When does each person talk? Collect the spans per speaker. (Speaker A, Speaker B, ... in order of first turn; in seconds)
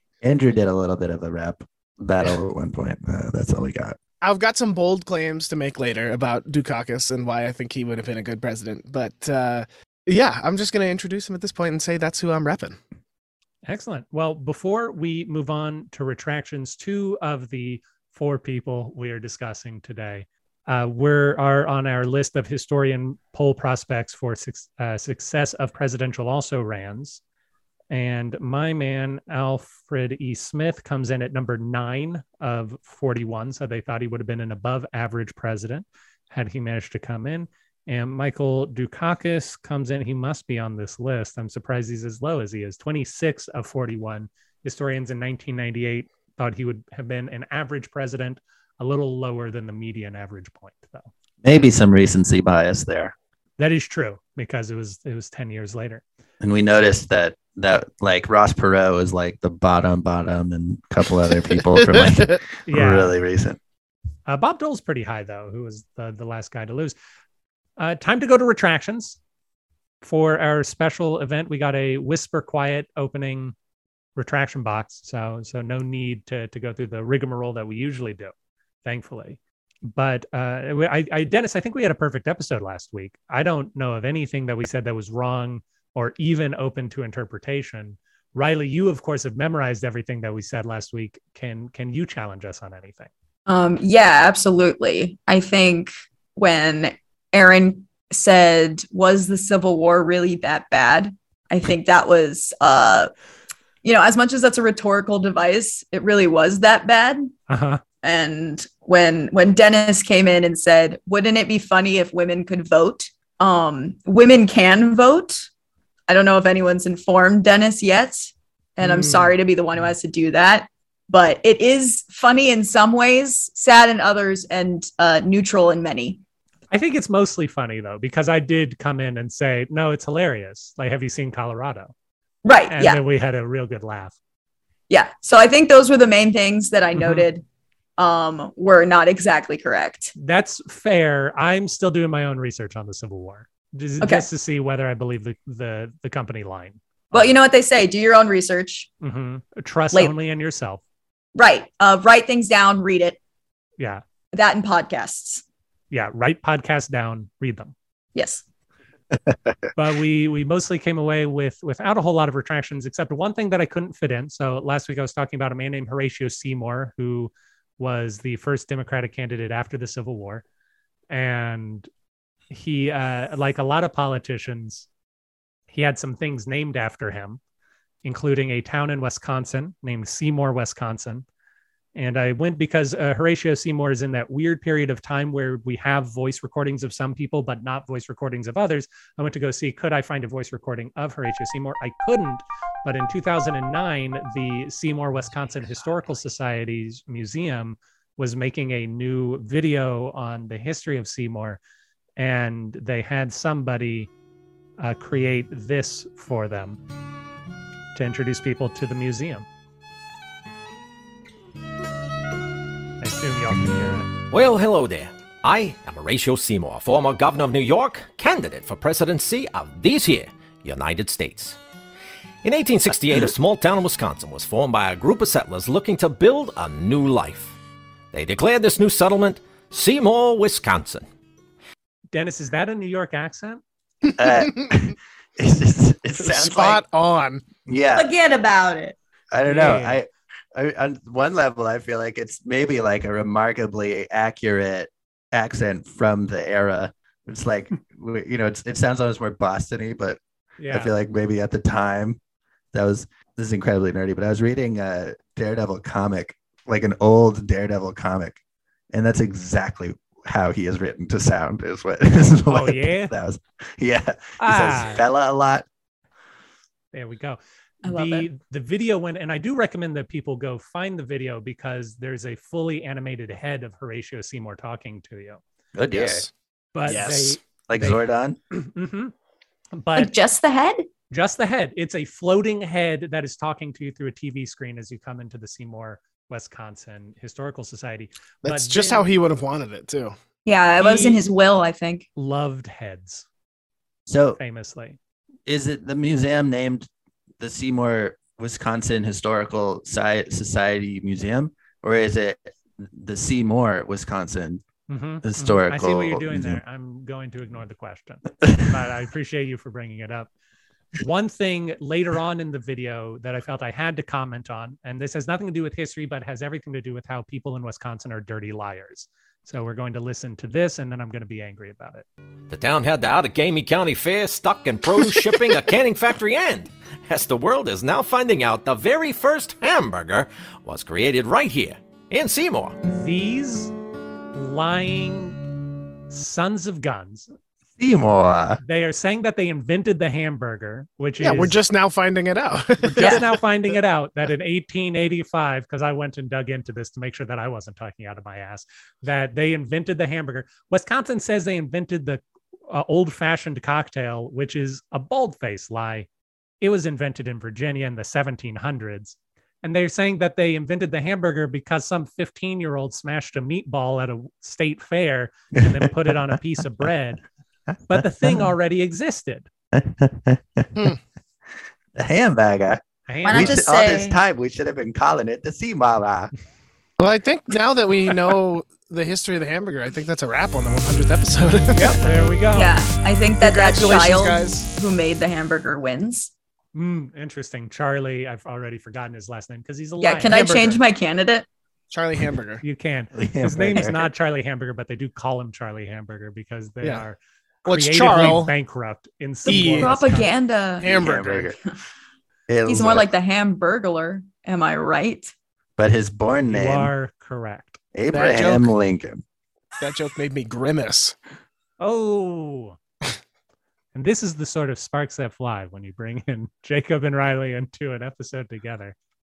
Speaker A: 0.2-4.0, 51.4-53.1, 56.4-63.6, 234.2-236.8, 237.7-238.1, 239.3-252.2, 252.7-258.4, 258.9-265.6, 275.7-276.3, 277.7-278.4, 294.1-294.4, 295.5-296.9, 297.4-304.6, 305.2-306.6, 337.8-338.6, 365.6-365.9, 369.7-370.9, 371.9-376.3, 393.1-394.1, 400.8-401.6, 402.5-403.1, 405.8-406.9, 407.9-409.2
Speaker B: 4.2-12.8, 61.8-62.3, 234.2-234.7, 236.2-237.4, 275.9-276.3, 276.9-277.4, 288.4-290.1, 341.2-343.4, 377.0-382.1, 383.4-384.7, 390.2-390.8, 391.9-392.6, 397.6-398.5, 399.4-400.3, 400.8-401.5, 408.1-408.7, 409.8-411.1
Speaker C: 13.7-27.2, 27.9-51.1, 53.6-56.0, 62.7-63.1, 64.3-67.0, 67.8-69.2, 70.0-73.5, 74.2-78.3, 78.8-93.1, 107.5-107.8, 118.8-119.3, 126.7-131.9, 132.7-134.1, 136.9-137.2, 140.2-147.3, 149.0-150.8, 153.8-154.0, 155.9-157.7, 159.7-170.4, 171.1-171.9, 172.5-174.9, 175.7-177.4, 178.0-181.2, 181.9-201.6, 202.2-204.1, 204.8-206.8, 207.9-209.4, 213.0-214.1, 232.1-233.6, 239.4-240.0, 250.6-250.9, 262.5-263.1, 264.4-265.0, 266.9-275.4, 276.7-279.1, 279.7-280.1, 281.1-289.1, 290.8-291.2, 292.1-293.2, 294.4-295.0, 304.9-310.3, 311.0-322.1, 332.9-333.7, 334.3-335.5, 336.1-337.3, 338.6-341.6, 342.8-356.1, 356.6-367.2, 367.9-369.5, 373.1-373.6, 381.7-382.7, 386.7-390.8, 392.6-400.2, 406.5-407.8, 411.8-412.8, 413.9-418.9
Speaker D: 93.5-103.1, 103.8-107.3, 108.0-115.5, 116.1-126.2, 132.4-133.0, 134.9-137.4, 138.0-140.1, 144.0-144.3, 147.1-148.9, 151.3-153.2, 154.3-155.4, 158.1-158.4, 237.9-238.9, 267.8-268.3, 279.9-280.9, 290.4-292.1, 373.2-374.2, 382.5-386.3, 390.0-391.4, 399.4-401.0, 402.6-405.3
Speaker E: 214.3-221.6, 222.4-227.6, 228.1-231.0, 322.5-332.8